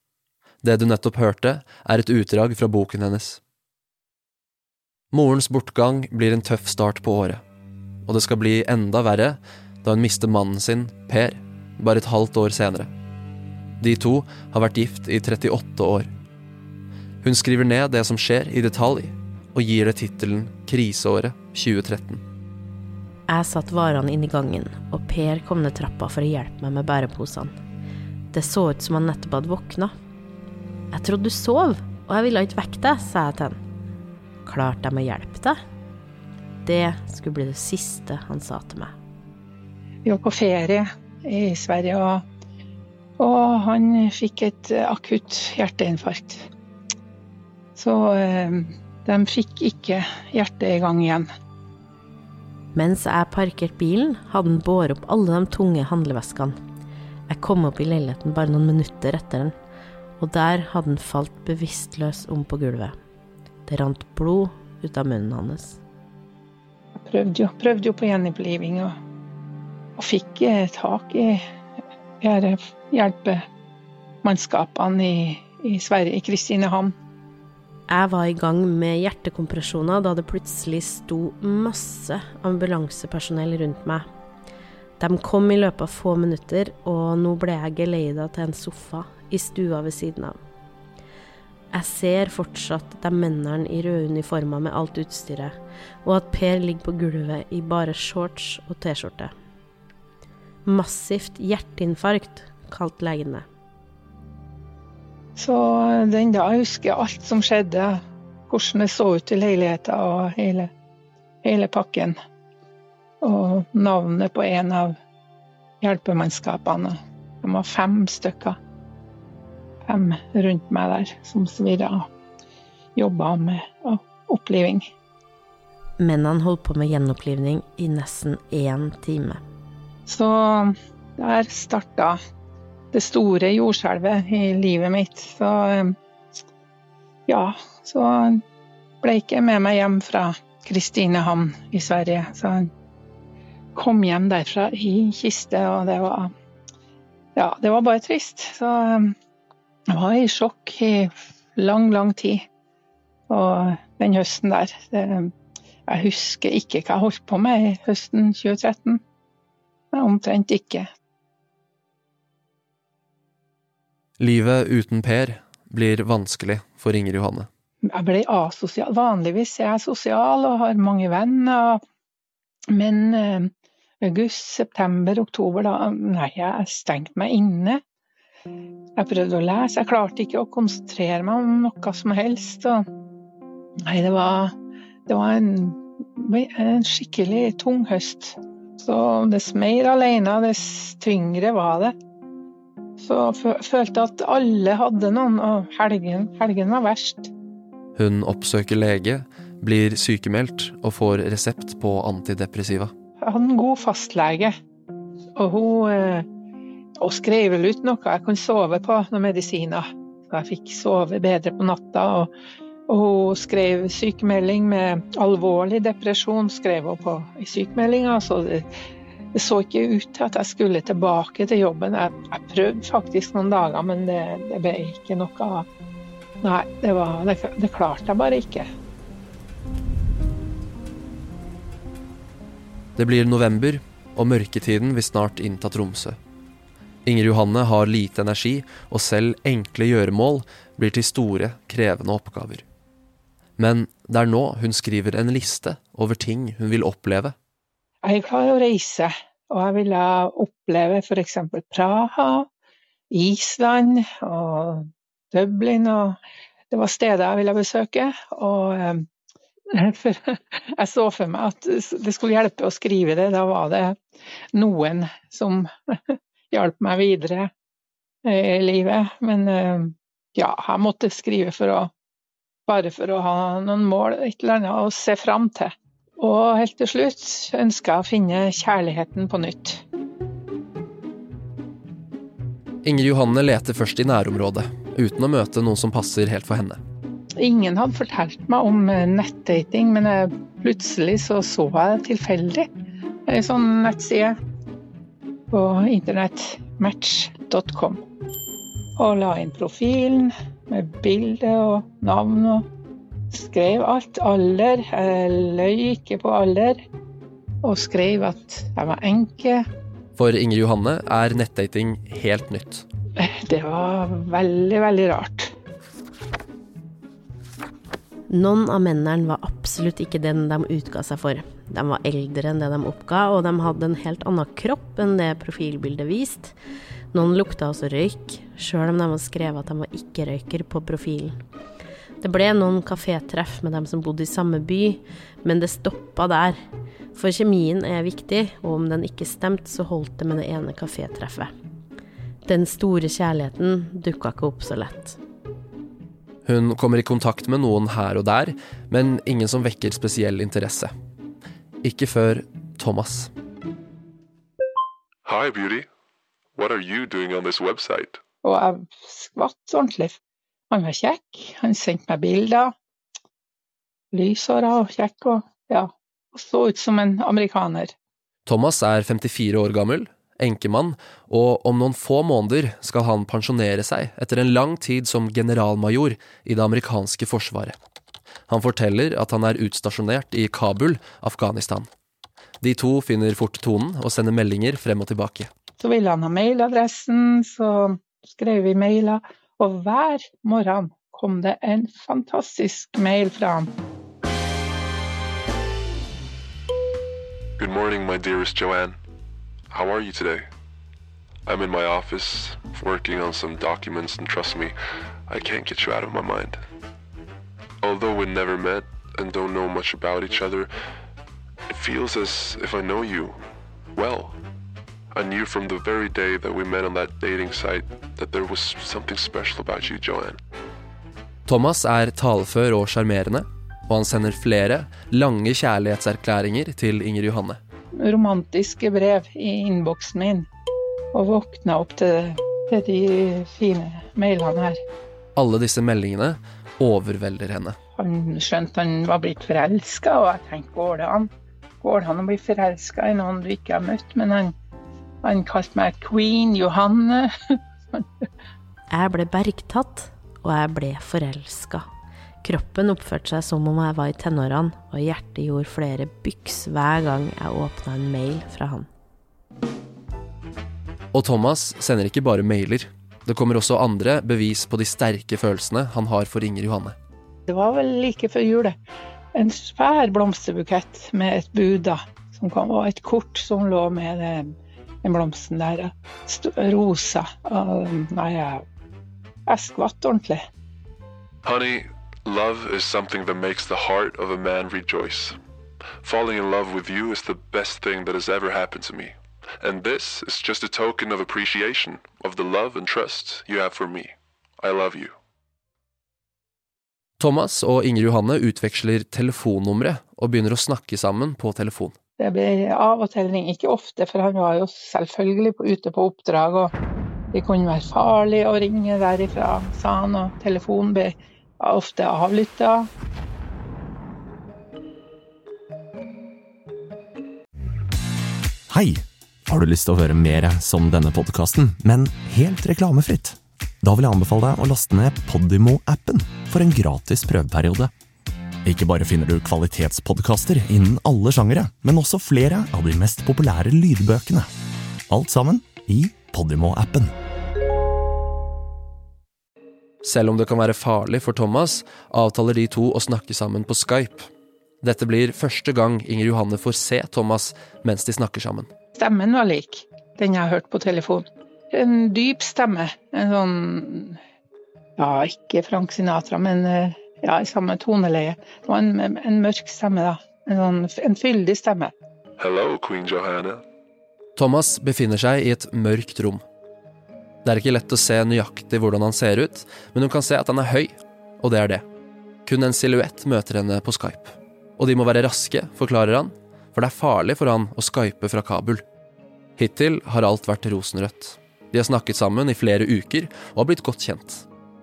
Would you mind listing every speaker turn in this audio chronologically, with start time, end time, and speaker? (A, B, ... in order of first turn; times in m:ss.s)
0:00.6-0:03.4 A
0:05.1-0:07.4 A
0:08.0-0:12.9 A
0:13.8-0:16.1 A
0:17.2-0:22.2 A
0:23.3-0:27.5 B
0:28.3-0:29.9 B
0:30.9-0:33.6 B
0:34.4-0:35.5 B
0:36.6-0:38.9 B
0:40.0-0:42.2 C
0:43.2-0:46.5 C
0:47.8-0:51.3 C
0:52.7-0:56.5 B
0:57.3-0:59.5 B
1:00.2-1:02.9 B
1:03.7-1:05.8 B
1:07.0-1:09.0 C
1:10.0-1:11.4 C
1:12.2-1:13.4 C
1:14.2-1:16.9 C
1:17.9-1:24.0 B
1:25.0-1:30.3 B
1:31.7-1:35.5 B
1:36.0-1:39.3 B
1:40.6-1:43.4 B
1:45.4-1:50.7 C
1:51.4-1:52.2 C
1:53.2-1:55.0 C
1:55.8-1:58.6 C
1:59.8-2:02.0 C
2:03.0-2:04.9 C
2:06.0-2:09.4 B
2:10.0-2:12.2 C
2:12.9-2:15.9 C
2:17.3-2:18.4 C
2:19.0-2:22.7 C
2:23.7-2:26.3 C
2:27.4-2:29.1 C
2:29.9-2:32.4 C
2:33.3-2:35.3 C
2:35.9-2:39.0 C
2:39.9-2:40.9 C
2:44.2-2:47.5 A
2:47.8-2:51.8 C
2:52.7-2:53.5 C
2:54.0-2:57.8 C
2:59.0-3:02.8 C
3:03.8-3:04.5 C
3:05.1-3:11.9 C
3:13.0-3:17.3 C
3:17.9-3:22.9 A
3:23.2-3:24.5 C
3:25.4-3:26.2 C
3:27.0-3:32.3 C
3:32.9-3:38.7 C
3:39.3-3:45.6 C
3:46.4-3:48.7 C
3:53.0-3:56.2 A
3:57.0-4:02.6 A
4:03.6-4:07.3 A
4:08.0-4:12.5 C
4:13.1-4:16.2 C
4:16.7-4:19.0 C
4:19.7-4:24.0 C
4:24.5-4:27.5 C
4:28.2-4:31.9 C
4:32.7-4:39.8 C
4:42.8-4:46.8 A
4:47.4-4:52.7 C
4:53.3-4:54.4 C
4:55.5-4:58.0 C
4:59.0-5:02.6 C
5:03.3-5:06.8 C
5:07.6-5:09.6 C
5:10.2-5:12.8 A
5:13.2-5:15.5 C
5:18.3-5:26.5 B
5:27.1-5:31.3 B
5:32.2-5:36.5 B
5:37.1-5:41.5 B
5:42.5-5:45.2 B
5:46.4-5:50.9 A
5:51.8-5:53.3 A
5:55.2-5:55.9 D
5:56.6-5:58.2 D
5:58.4-6:00.2 C
6:00.7-6:02.7 C
6:04.1-6:07.9 C
6:08.4-6:17.8 A
6:18.5-6:21.9 A
6:22.6-6:25.5 A
6:25.8-6:33.7 C
6:37.6-6:39.0 D
6:39.7-6:40.5 D
6:41.4-6:44.8 D
6:45.3-6:46.6 D
6:47.8-6:50.7 D
6:51.7-6:53.4 D
6:53.9-6:54.4 D
6:55.1-7:00.4 D
7:01.5-7:07.6 A
7:07.9-7:10.5 C
7:11.1-7:14.8 C
7:15.4-7:17.8 A
7:18.0-7:21.3 C
7:21.8-7:24.5 C
7:25.2-7:28.0 C
7:29.0-7:31.8 B
7:32.4-7:38.8 B
7:41.1-7:47.0 A
7:47.5-7:48.8 C
7:49.3-7:58.6 C
7:59.4-8:00.4 C
8:01.4-8:05.4 D
8:06.0-8:15.1 D
8:17.2-8:21.9 A
8:22.2-8:26.7 C
8:27.3-8:32.9 C
8:38.7-8:47.9 E
8:48.6-8:54.5 E
8:55.1-8:57.1 E
9:00.0-9:04.3 A
9:04.8-9:08.7 A
9:09.0-9:14.2 C
9:15.0-9:21.9 C
9:22.4-9:23.6 D
9:24.4-9:26.4 A
9:27.4-9:31.8 A
9:32.4-9:38.8 A
9:39.6-9:44.4 A